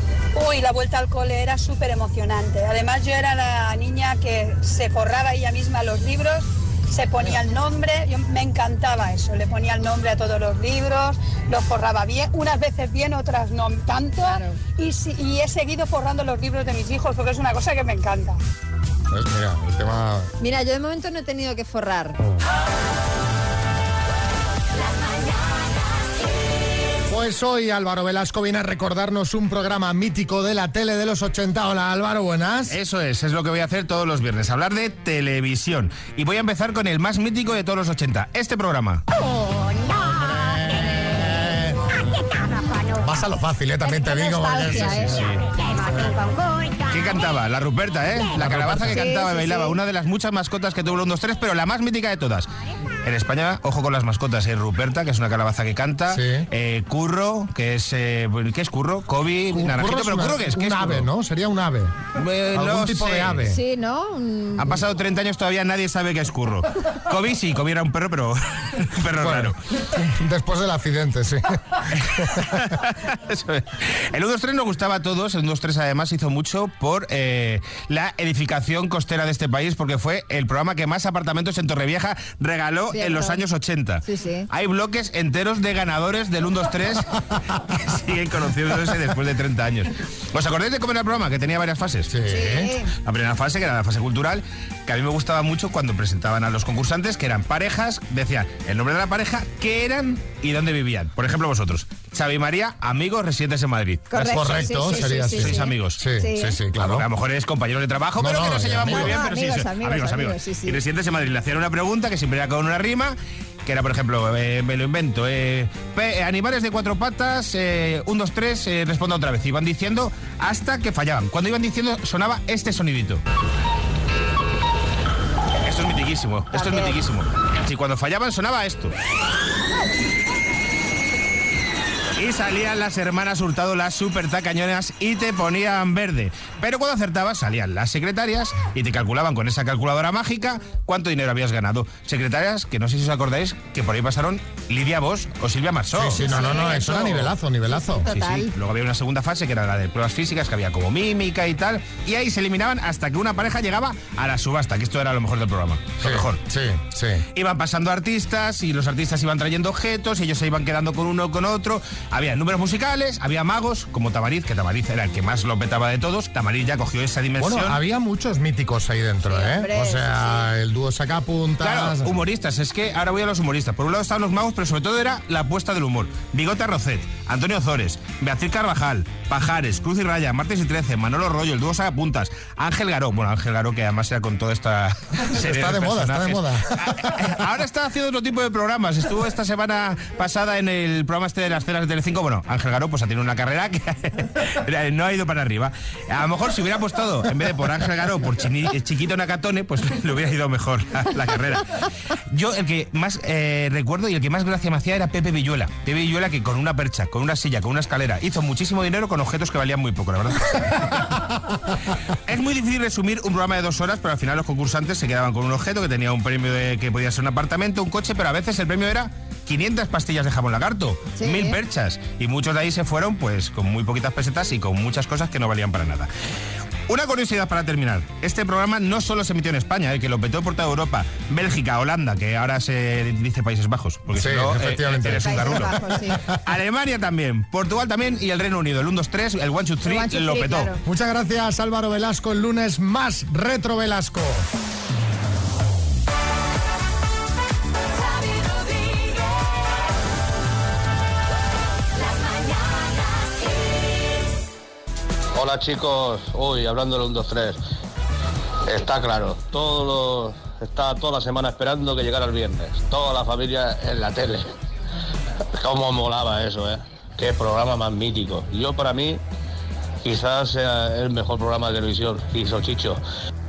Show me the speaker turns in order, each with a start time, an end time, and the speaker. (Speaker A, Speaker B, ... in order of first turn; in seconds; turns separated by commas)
Speaker A: 0.3-18.4, Speaker B: 14.2-14.6, Speaker C: 19.1-20.3, Speaker B: 20.4-22.2, Speaker C: 27.1-32.8, Speaker D: 32.7-39.0, Speaker C: 40.0-42.0, Speaker C: 43.0-46.2, Speaker B: 43.9-45.2, Speaker D: 46.9-52.5, Speaker C: 48.3-49.0, Speaker B: 48.9-49.8, Speaker D: 53.0-61.1, Speaker C: 56.1-56.5, Speaker C: 59.5-63.6, Speaker D: 62.2-63.5, Speaker B: 63.5-64.8, Speaker D: 64.6-68.4, Speaker D: 69.0-69.5, Speaker C: 69.2-71.4, Speaker C: 72.2-72.5, Speaker D: 72.4-87.0, Speaker B: 82.9-83.4, Speaker B: 84.0-84.5, Speaker D: 88.0-92.2, Speaker C: 92.1-92.7, Speaker B: 92.3-92.9, Speaker D: 93.1-106.0, Speaker B: 104.1-106.6, Speaker C: 104.2-107.1, Speaker D: 106.7-123.2, Speaker C: 108.2-109.2, Speaker B: 108.8-110.8, Speaker D: 125.6-128.9, Speaker B: 126.5-127.0, Speaker D: 132.2-147.3, Speaker C: 145.9-148.2, Speaker B: 146.2-147.0, Speaker B: 147.7-148.5, Speaker D: 148.1-156.4, Speaker C: 156.0-157.2, Speaker D: 157.3-167.8, Speaker C: 167.4-172.2, Speaker B: 169.3-170.5, Speaker D: 171.6-201.6, Speaker C: 185.3-187.3, Speaker D: 202.3-210.4, Speaker D: 212.3-226.1, Speaker B: 221.2-221.6, Speaker D: 226.9-235.8, Speaker C: 234.1-236.4, Speaker B: 235.1-236.2, Speaker D: 236.5-240.7, Speaker B: 239.8-240.8, Speaker C: 240.8-244.5, Speaker E: 255.3-257.6, Speaker E: 258.7-264.5, Speaker E: 265.6-269.2, Speaker E: 270.0-273.0